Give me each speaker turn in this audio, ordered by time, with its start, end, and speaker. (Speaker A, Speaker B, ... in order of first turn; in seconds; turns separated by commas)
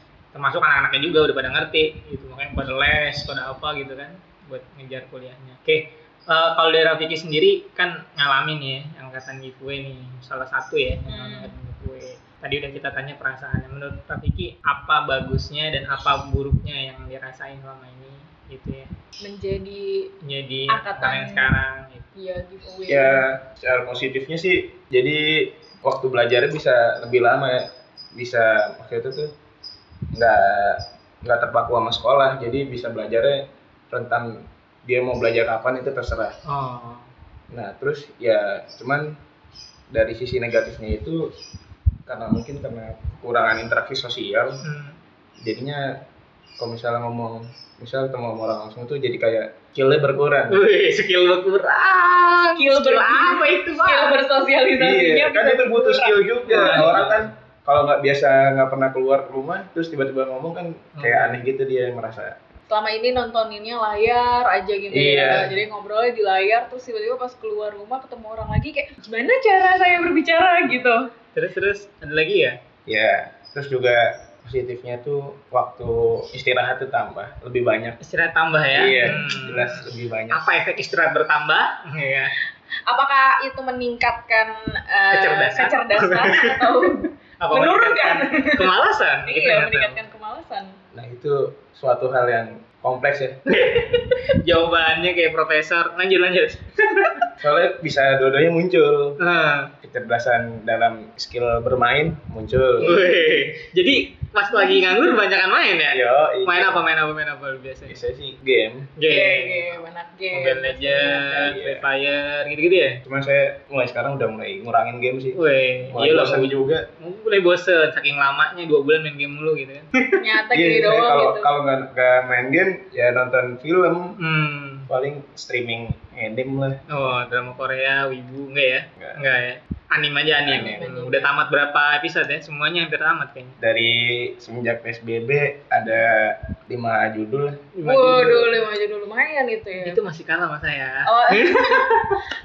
Speaker A: 0.3-18.9, Speaker B: 11.1-11.5, Speaker B: 19.2-20.1, Speaker A: 20.2-22.0, Speaker B: 20.7-21.5, Speaker B: 22.1-23.3, Speaker C: 22.9-29.3, Speaker C: 30.1-36.4, Speaker A: 36.5-37.1, Speaker C: 37.5-39.2, Speaker C: 39.9-41.3, Speaker C: 42.1-44.6, Speaker A: 44.6-45.0, Speaker C: 45.4-46.0, Speaker C: 46.6-50.6, Speaker A: 50.5-54.2, Speaker B: 52.5-57.0, Speaker C: 54.8-62.4, Speaker A: 56.5-57.3, Speaker A: 61.0-61.5, Speaker B: 62.7-71.0, Speaker C: 64.9-65.5, Speaker A: 71.3-72.6, Speaker C: 72.9-78.0, Speaker A: 78.0-82.3, Speaker C: 78.7-80.5, Speaker B: 82.9-88.7, Speaker A: 85.1-90.0, Speaker B: 89.2-90.8, Speaker C: 90.9-93.6, Speaker A: 93.5-97.3, Speaker C: 97.4-99.2, Speaker A: 99.2-99.7, Speaker C: 99.8-103.0, Speaker A: 102.8-108.0, Speaker B: 104.5-105.0, Speaker C: 105.9-106.8, Speaker C: 107.9-108.9, Speaker A: 109.0-113.0, Speaker B: 109.1-111.6, Speaker C: 111.5-111.8, Speaker C: 113.0-115.4, Speaker A: 115.4-120.1, Speaker C: 115.9-116.9, Speaker B: 120.2-121.5, Speaker C: 120.5-124.2, Speaker A: 124.2-124.9, Speaker C: 124.9-126.8, Speaker A: 126.9-133.6, Speaker C: 129.0-129.2, Speaker B: 130.5-131.3, Speaker C: 130.5-130.8, Speaker C: 133.6-137.6, Speaker A: 137.8-138.6, Speaker B: 137.8-140.0, Speaker A: 139.8-142.2, Speaker B: 141.1-142.2